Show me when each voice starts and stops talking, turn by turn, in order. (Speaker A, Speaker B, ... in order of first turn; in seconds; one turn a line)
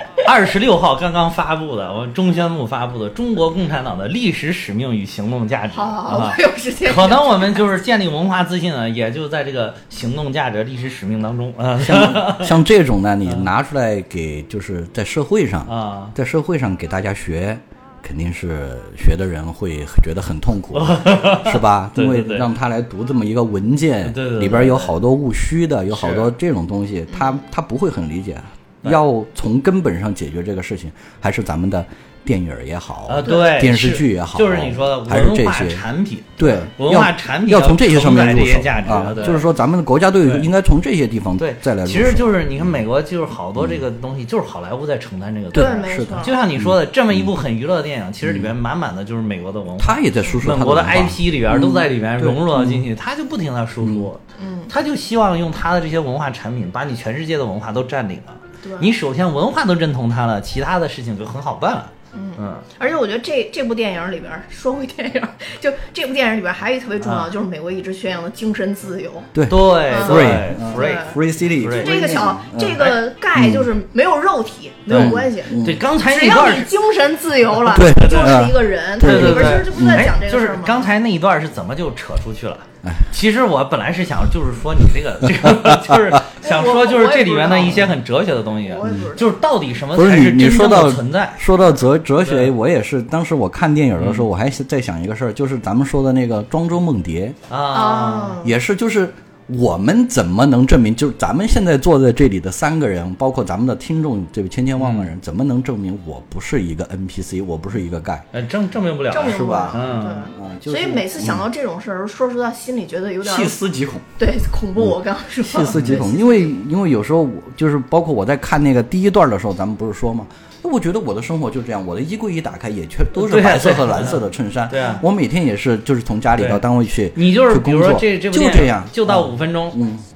Speaker A: 0.2-12.6
Speaker B: 5.7-7.6
Speaker C: 11.8-35.8
Speaker A: 15.7-16.1
Speaker A: 20.7-22.5
Speaker A: 24.0-24.9
Speaker A: 25.9-26.3
Speaker B: 27.1-27.4
Speaker A: 33.1-39.5
Speaker C: 36.4-42.7
Speaker A: 41.4-62.6
Speaker C: 43.6-43.8
Speaker C: 45.5-47.3
Speaker B: 45.5-46.4
Speaker C: 48.2-48.5
Speaker C: 49.8-52.9
Speaker C: 53.8-54.1
Speaker B: 54.4-54.7
Speaker B: 58.6-58.9
Speaker B: 62.1-69.3
Speaker A: 67.0-67.3
Speaker C: 69.3-73.7
Speaker A: 69.5-72.2
Speaker B: 69.8-71.2
Speaker B: 71.8-80.9
Speaker A: 74.9-76.7
Speaker C: 74.9-75.8
Speaker C: 77.7-80.0
Speaker A: 77.8-78.4
Speaker A: 79.0-91.5
Speaker C: 82.8-83.1
Speaker C: 85.3-86.2
Speaker B: 86.4-87.9
Speaker B: 88.6-89.3
Speaker C: 89.9-97.4
Speaker A: 92.2-92.5
Speaker A: 94.0-94.3
Speaker A: 97.5-98.4
Speaker B: 97.7-98.5
Speaker C: 98.4-108.2
Speaker A: 104.8-105.1
Speaker A: 108.3-110.3
Speaker B: 109.1-113.5
Speaker C: 109.2-111.4
Speaker C: 113.2-114.0
Speaker B: 114.2-116.5
Speaker C: 114.8-130.0
Speaker A: 115.6-116.0
Speaker A: 123.2-125.0
Speaker B: 124.8-125.0
Speaker A: 126.4-126.6
Speaker A: 127.1-129.8